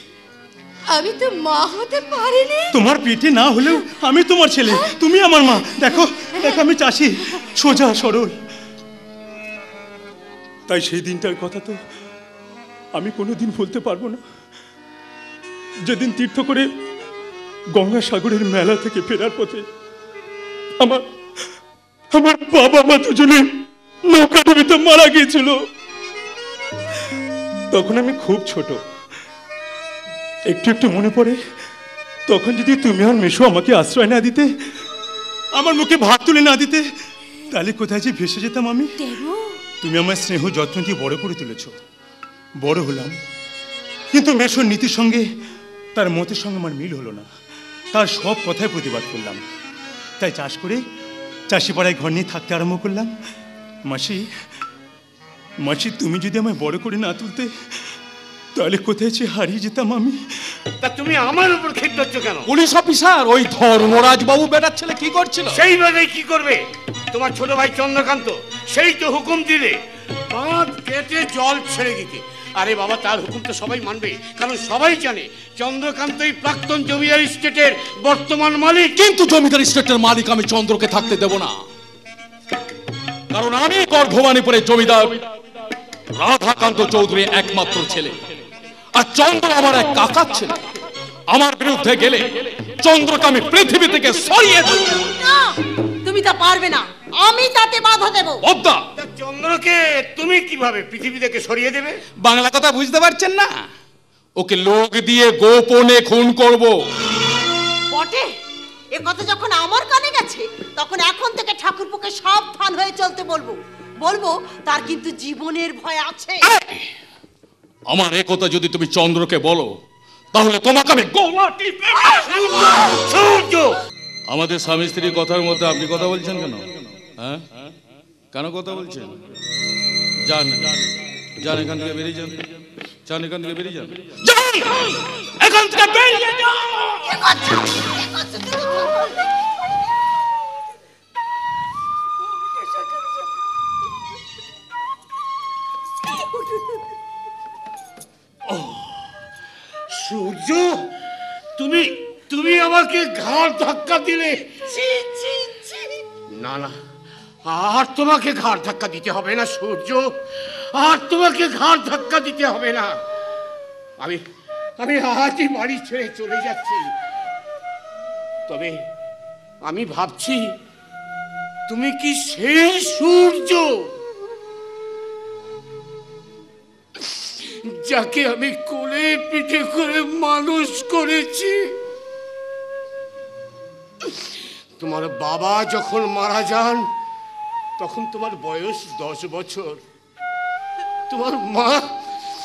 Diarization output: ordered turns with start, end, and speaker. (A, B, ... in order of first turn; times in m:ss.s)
0:00.9-0:02.7 A
0:02.7-0:08.3 B
0:06.4-0:06.6 A
0:10.7-0:11.8 B
0:12.9-0:14.2 B
0:15.8-0:16.7 B
0:17.8-0:19.6 B
0:22.1-0:23.5 B
0:24.1-0:25.5 B
0:27.7-0:28.8 B
0:30.5-0:31.4 B
0:32.3-0:34.4 B
0:35.6-0:36.8 B
0:37.5-0:38.9 B
0:39.8-0:41.7 B
0:42.6-0:43.1 B
0:44.1-0:45.2 B
0:45.9-0:47.3 B
0:47.9-0:49.4 B
0:50.2-0:50.8 B
0:51.5-0:53.1 B
0:53.9-0:54.2 B
0:55.6-0:57.5 B
0:58.5-1:00.2 B
1:00.8-1:02.5 C
1:02.5-1:05.6 D
1:05.5-1:09.8 C
1:10.3-1:18.9 C
1:19.0-1:21.6 D
1:23.3-1:25.2 D
1:26.2-1:28.2 D
1:28.9-1:30.5 D
1:31.3-1:34.8 D
1:34.5-1:35.5 E
1:36.0-1:38.4 E
1:38.4-1:38.8 D
1:39.0-1:42.0 C
1:42.2-1:43.6 D
1:44.4-1:46.7 D
1:47.9-1:48.3 E
1:49.0-1:56.4 E
1:56.4-1:56.8 D
1:57.9-1:59.7 D
2:00.3-2:02.4 D
2:02.0-2:03.7 C
2:04.3-2:06.6 D
2:07.2-2:07.4 D
2:08.3-2:09.2 D
2:10.2-2:10.7 D
2:11.4-2:12.4 D
2:13.1-2:13.9 D
2:15.4-2:16.1 D
2:17.0-2:19.4 E
2:28.5-2:28.8 C
2:30.0-2:30.8 C
2:31.6-2:34.4 C
2:36.4-2:36.8 C
2:37.5-2:40.1 C
2:40.7-2:43.0 C
2:44.8-2:46.9 C
2:48.5-2:48.8 C
2:49.6-2:50.5 C
2:51.7-2:53.8 C
2:57.7-3:01.7 C
3:04.8-3:06.8 C
3:07.8-3:09.8 C
3:11.1-3:11.9 C